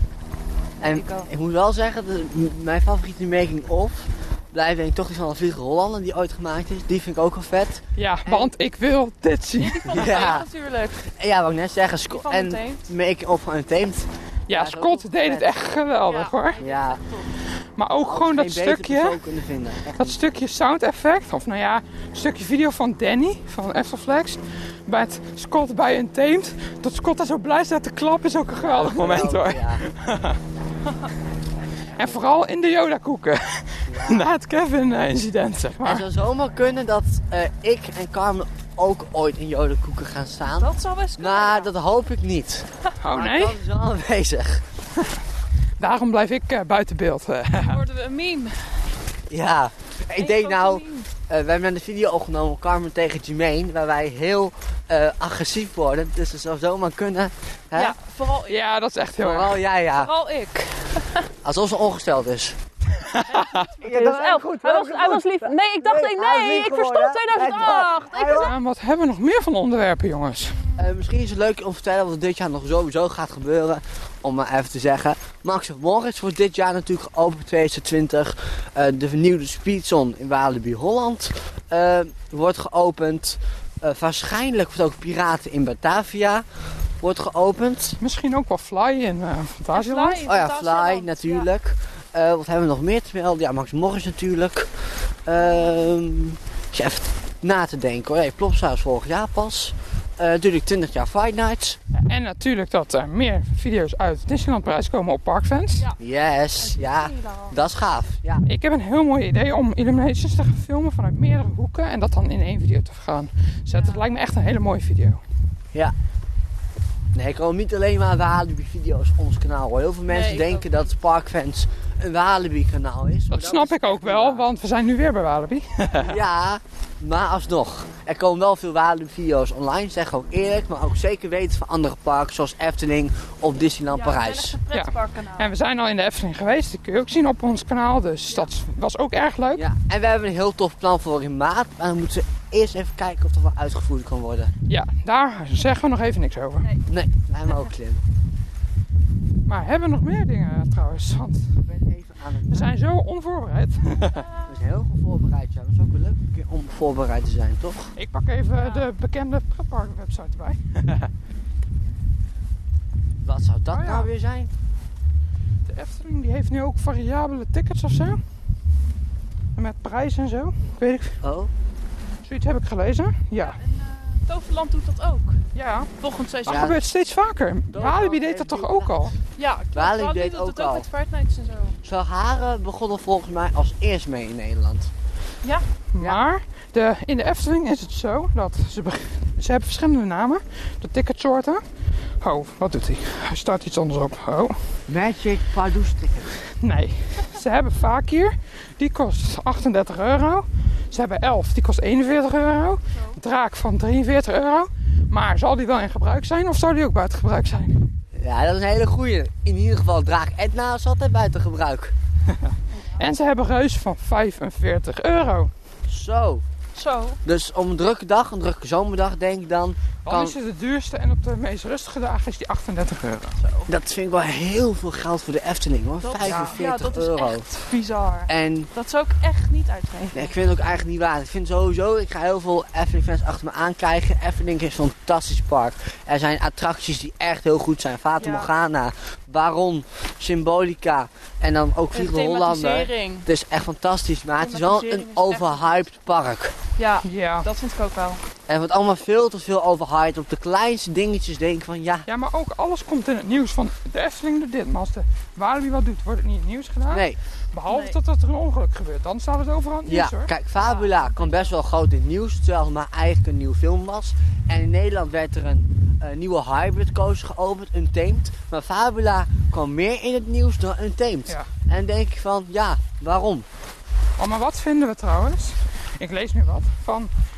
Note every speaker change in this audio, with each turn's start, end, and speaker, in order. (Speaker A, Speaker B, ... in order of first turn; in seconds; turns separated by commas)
Speaker A: 0.8-1.3, Speaker B: 0.8-8.5, Speaker C: 8.0-10.2, Speaker A: 9.6-11.0, Speaker B: 9.9-10.5, Speaker B: 11.1-15.5, Speaker A: 12.1-12.8, Speaker C: 14.5-16.6, Speaker A: 16.1-17.3, Speaker B: 16.6-17.0, Speaker C: 17.8-19.2, Speaker B: 18.0-20.2, Speaker C: 20.0-30.4, Speaker B: 28.6-29.8, Speaker C: 32.0-36.1, Speaker B: 33.9-34.3, Speaker B: 35.8-44.6, Speaker A: 40.5-41.7, Speaker C: 43.0-43.6, Speaker C: 45.8-47.8, Speaker A: 47.5-48.6, Speaker B: 49.3-58.0, Speaker A: 50.2-51.1, Speaker A: 57.7-58.6, Speaker C: 58.5-59.6, Speaker B: 59.2-60.1, Speaker A: 60.0-61.3, Speaker B: 61.4-62.6, Speaker C: 63.0-63.5, Speaker A: 63.3-68.5, Speaker B: 63.5-68.5, Speaker C: 68.2-70.6, Speaker B: 70.8-86.4, Speaker B: 87.0-88.0, Speaker C: 88.0-90.2, Speaker A: 89.7-91.5, Speaker B: 90.2-94.7, Speaker B: 95.3-101.8, Speaker C: 102.0-105.9, Speaker B: 106.0-108.5, Speaker A: 106.6-107.6, Speaker C: 108.5-115.2, Speaker A: 113.7-114.0, Speaker B: 117.1-124.5, Speaker A: 120.1-120.9, Speaker C: 123.3-126.2, Speaker B: 126.0-134.6, Speaker A: 133.9-135.5, Speaker C: 134.7-139.6, Speaker B: 139.5-144.5, Speaker C: 144.7-146.7, Speaker B: 146.9-148.0, Speaker C: 149.5-151.5, Speaker B: 151.7-152.7, Speaker C: 152.5-154.3, Speaker A: 154.0-154.5, Speaker B: 154.5-157.9, Speaker C: 157.9-161.1, Speaker A: 158.5-158.9, Speaker B: 163.2-164.5, Speaker C: 163.7-164.1, Speaker C: 165.7-168.2, Speaker C: 169.6-171.2, Speaker B: 171.2-171.5, Speaker C: 172.2-173.6, Speaker A: 173.3-175.4, Speaker C: 175.5-175.9, Speaker A: 176.0-176.8, Speaker B: 176.5-176.8, Speaker C: 176.5-179.1, Speaker B: 177.7-179.1, Speaker A: 179.4-181.8, Speaker B: 179.7-180.9, Speaker B: 181.8-184.9, Speaker C: 185.9-191.6, Speaker C: 192.2-194.6, Speaker B: 194.9-196.4, Speaker C: 196.6-207.9, Speaker A: 202.9-203.2, Speaker B: 208.2-211.9, Speaker A: 212.7-213.1, Speaker C: 213.0-215.5, Speaker B: 215.9-216.4, Speaker A: 216.8-217.2, Speaker B: 217.2-220.4, Speaker C: 220.1-223.4, Speaker A: 223.4-223.7, Speaker B: 223.7-227.5, Speaker A: 226.0-230.3, Speaker C: 226.2-226.6, Speaker B: 228.3-228.7, Speaker B: 230.1-246.6, Speaker A: 238.2-238.5, Speaker A: 241.9-243.3, Speaker A: 244.4-245.9, Speaker A: 246.8-248.2, Speaker C: 247.0-247.5, Speaker B: 248.5-252.1, Speaker C: 252.1-260.3, Speaker B: 256.9-257.2, Speaker A: 257.7-258.0, Speaker B: 259.9-273.5, Speaker A: 260.6-261.5, Speaker C: 274.2-277.1